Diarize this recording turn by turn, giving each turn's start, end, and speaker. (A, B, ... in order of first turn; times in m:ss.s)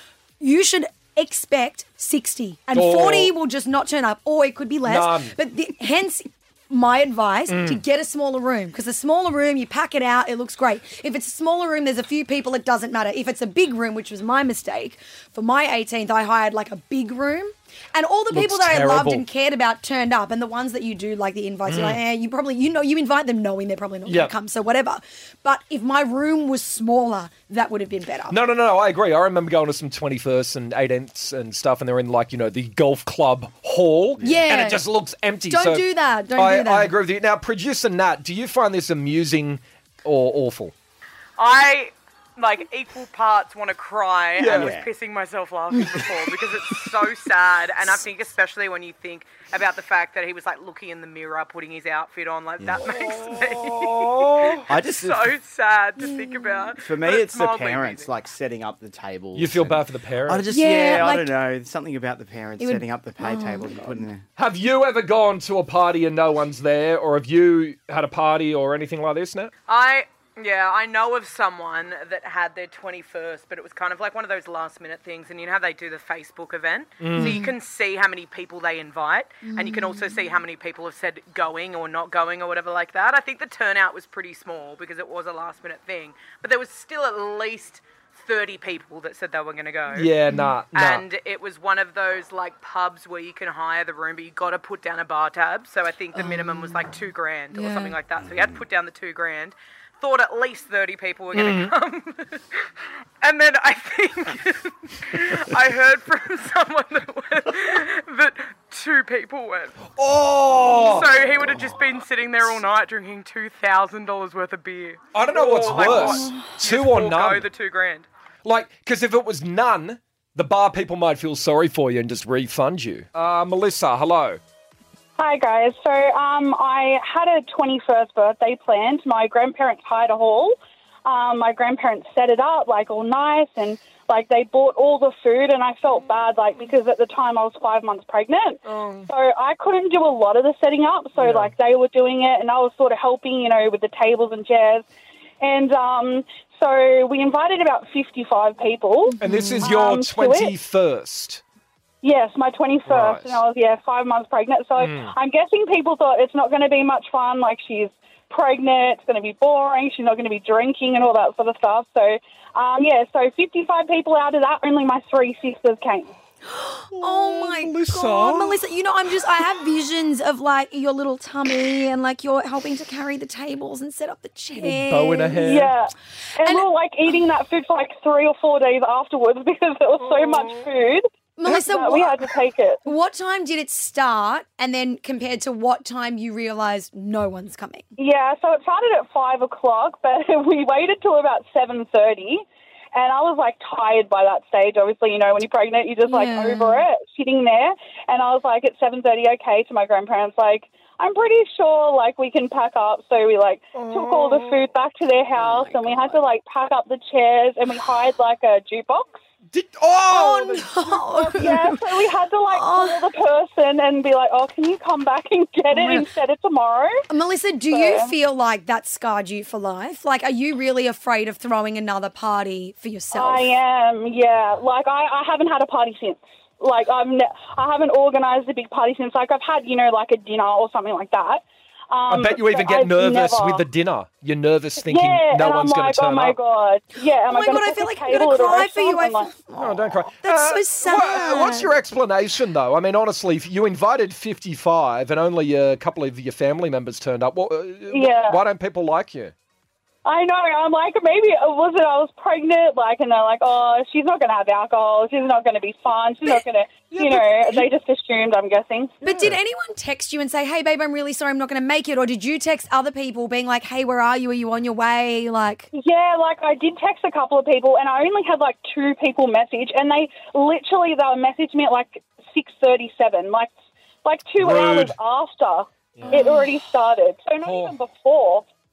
0:00.4-0:28.4 A
0:02.7-0:03.3 B
0:04.8-0:05.3 B
0:07.5-0:07.8 B
0:18.3-0:19.2 B
0:21.6-0:22.0 B
0:24.0-0:24.3 B
0:28.3-0:40.7 B
0:34.2-0:34.5 C
0:34.2-0:34.8 A
0:35.5-0:36.9 A
0:41.4-0:58.2 D
0:44.4-0:44.8 B
0:44.4-0:44.9 C
0:52.6-0:52.8 C
0:52.8-0:54.7 B
0:54.7-0:55.3 C
0:56.0-0:56.8 A
0:56.8-1:04.2 C
0:59.3-1:00.5 B
1:00.5-1:01.3 A
1:02.6-1:04.0 A
1:04.4-1:09.5 B
1:09.7-1:30.2 D
1:17.0-1:17.4 B
1:17.1-1:17.5 A
1:19.4-1:20.2 A
1:29.9-1:31.0 B
1:30.3-1:30.5 A
1:30.7-1:42.6 D
1:36.2-1:36.8 A
1:37.5-1:38.0 A
1:41.3-1:41.7 B
1:43.2-1:49.9 D
1:49.9-1:51.1 B
1:50.7-1:58.1 D
1:55.1-1:57.5 B
1:55.7-1:56.6 A
1:58.4-2:04.4 B
2:05.2-2:24.8 E
2:18.6-2:19.1 B
2:21.2-2:21.5 B
2:25.4-2:30.5 E
2:29.2-2:31.4 B
2:29.2-2:29.7 A
2:32.0-2:46.1 E
2:32.8-2:33.4 B
2:34.8-2:35.1 B
2:46.5-2:55.4 A
2:47.0-2:48.6 B
2:54.6-2:55.7 B
2:55.4-3:02.8 E
3:01.4-3:02.1 A
3:02.8-3:07.9 A
3:08.0-3:29.2 E
3:16.0-3:16.8 A
3:23.7-3:24.6 B
3:25.4-3:26.2 C
3:29.5-3:31.3 B
3:30.1-3:31.8 A
3:31.3-3:37.0 E
3:32.5-3:33.0 A
3:35.7-3:36.0 A
3:37.1-3:43.5 A
3:37.7-3:38.1 E
3:43.1-3:53.6 E
3:52.1-3:56.4 B
3:54.8-3:59.3 E
3:57.2-4:01.8 A
3:59.6-4:09.3 B
4:07.9-4:08.4 E
4:10.0-4:19.0 E
4:17.2-4:17.6 A
4:19.0-4:19.4 B
4:19.0-4:25.7 A
4:25.7-4:33.5 E
4:34.0-4:38.5 E
4:34.4-4:35.0 B
4:36.0-4:36.3 B
4:36.1-4:36.5 A
4:37.4-4:37.8 B